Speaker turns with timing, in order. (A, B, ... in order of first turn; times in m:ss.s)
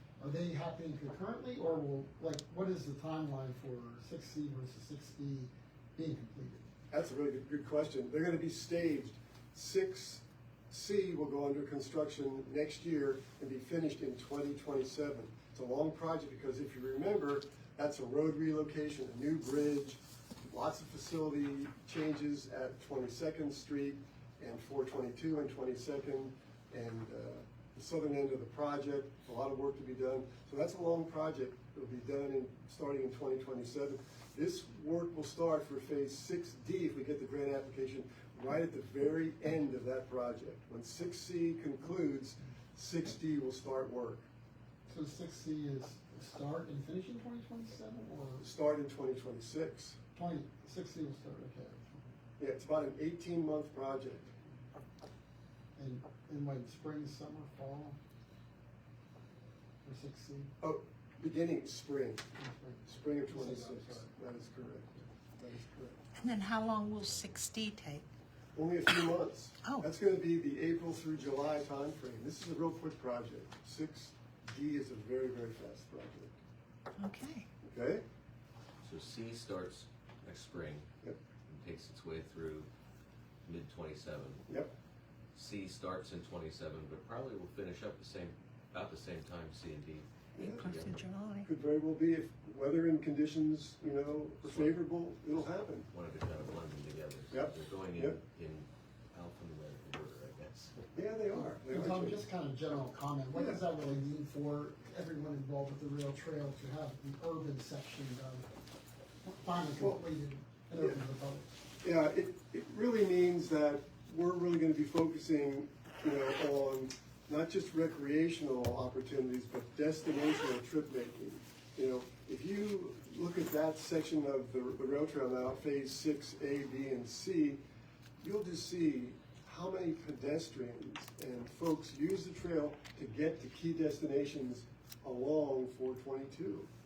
0:00.2-0:06.6 A
0:06.9-0:44.3 B
0:44.9-0:48.5 A
0:48.4-0:50.0 B
0:50.2-0:52.1 A
0:52.4-0:54.4 B
0:55.8-0:58.0 A
0:59.8-1:00.5 A
1:00.6-1:02.3 B
1:02.4-1:04.1 A
1:02.9-1:06.0 B
1:06.2-1:08.1 C
1:08.6-1:16.3 B
1:17.0-1:17.5 C
1:17.6-1:18.0 B
1:18.8-1:20.9 D
1:21.5-1:22.7 D
1:23.4-1:24.5 D
1:25.3-1:31.0 D
1:30.4-1:30.7 B
1:30.6-1:31.5 C
1:31.4-1:35.9 B
1:34.4-1:34.8 D
1:35.9-1:40.9 D
1:37.3-1:38.2 B
1:40.9-1:42.2 B
1:41.3-1:48.5 A
1:43.4-1:43.6 B
1:49.2-1:51.4 A
1:49.8-1:50.0 B
1:51.8-2:07.6 B
2:08.2-2:16.7 B